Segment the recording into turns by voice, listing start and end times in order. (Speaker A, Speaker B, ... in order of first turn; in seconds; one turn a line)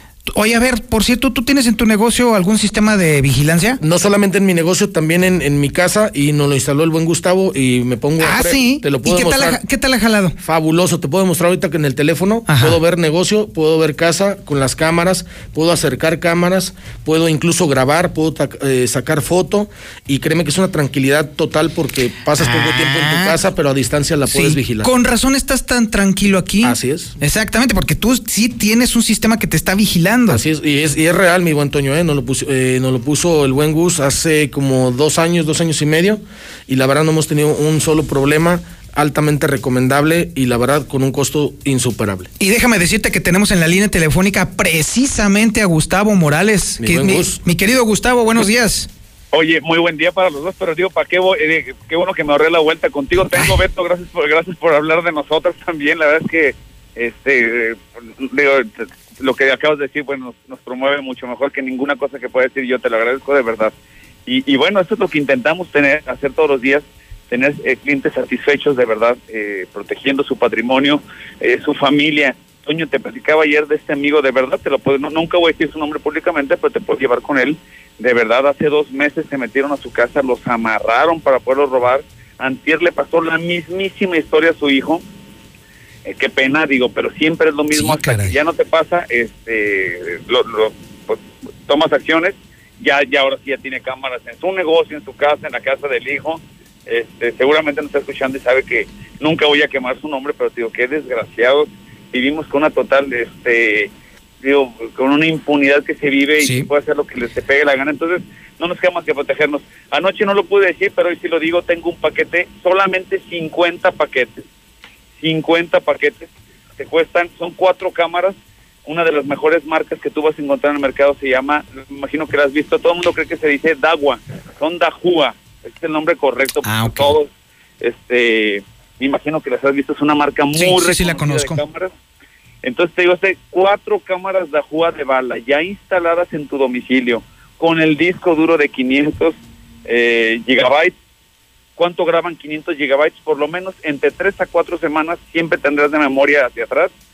Speaker A: 0.2-3.8
Speaker B: 3.8-9.6
Speaker A: 8.2-10.3
Speaker B: 10.4-24.9
Speaker A: 12.5-12.8
Speaker A: 22.4-23.4
Speaker A: 24.3-30.4
Speaker B: 26.6-27.1
Speaker B: 30.3-42.3
Speaker A: 42.4-48.9
Speaker B: 46.8-47.4
Speaker C: 49.3-58.7
Speaker C: 59.2-63.7
Speaker C: 64.2-85.0
Speaker C: 86.0-103.9
Speaker A: 87.7-88.4
Speaker C: 104.4-114.4
Speaker A: 106.4-106.7
Speaker C: 115.2-127.3
Speaker A: 126.6-127.2
Speaker C: 127.8-131.9
Speaker A: 130.5-131.6
Speaker C: 132.6-140.9
Speaker C: 141.8-146.9